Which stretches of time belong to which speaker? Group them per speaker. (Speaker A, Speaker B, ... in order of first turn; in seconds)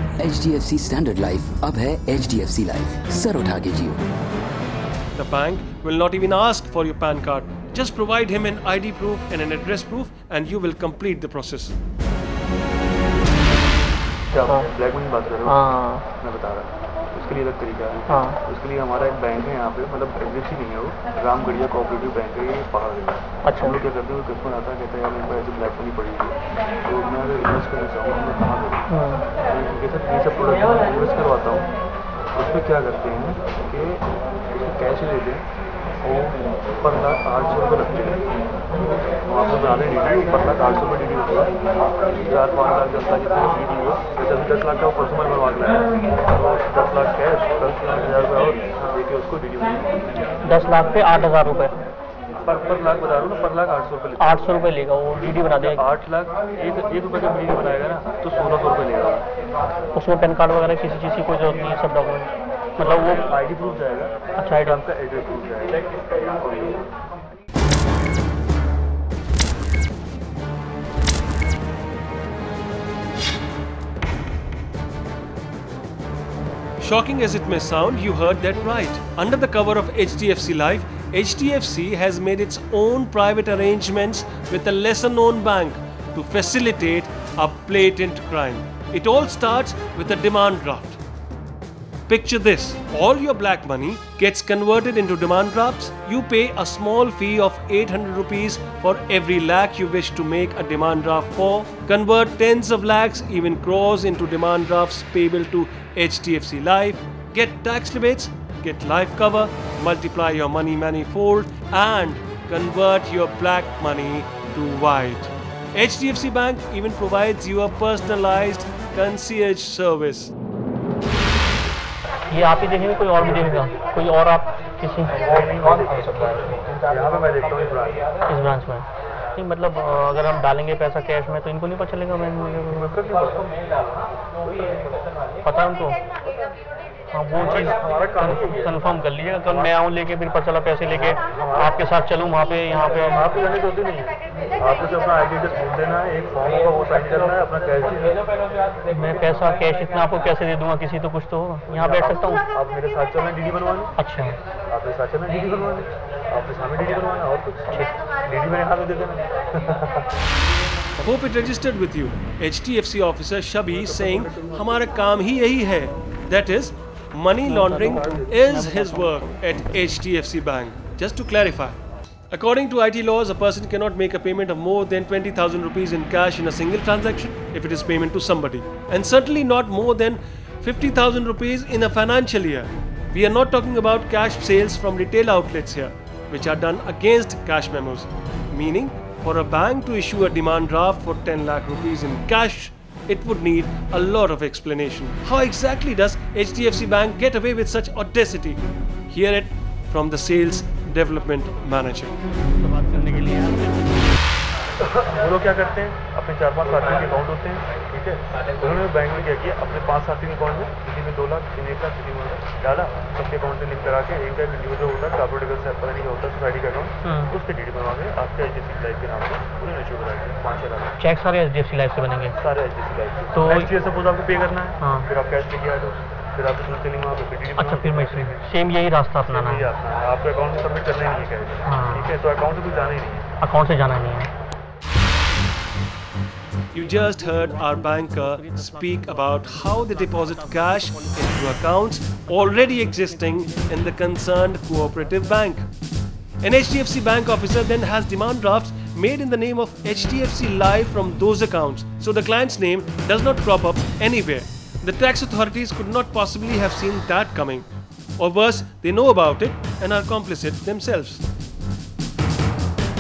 Speaker A: 0.2-4.0
Speaker B: 5.2-11.8, 76.8-91.0, 92.1-120.3, 161.0-171.8, 172.3-202.2, 236.7-245.7, 246.4-257.7, 258.2-261.2
Speaker C: 14.3-15.6, 16.2-28.8, 29.5-31.7, 32.4-35.5, 36.0-38.2, 38.7-41.5, 42.1-50.3, 52.4-54.5, 55.4-59.2, 62.8-66.8, 125.1-128.1, 132.7-134.8, 137.4-138.8, 140.9-141.8, 142.8-148.2, 151.7-153.9, 154.7-160.1, 163.7-164.9, 167.5-169.3, 204.8-221.0, 222.4-228.5, 229.2-233.3
Speaker D: 15.4-16.1, 18.1-18.4, 23.4-23.8, 28.9-29.2, 50.4-51.7, 54.2-55.8, 59.9-63.3, 64.4-64.8, 122.3-125.6, 128.3-132.9, 135.4-136.0, 137.1-143.2, 148.9-152.4, 154.0-154.4, 167.9-168.2, 168.9-169.6, 217.0-217.3, 221.0-222.4, 223.3-223.7, 224.8-225.1, 227.6-229.7, 231.7-232.2, 233.4-234.3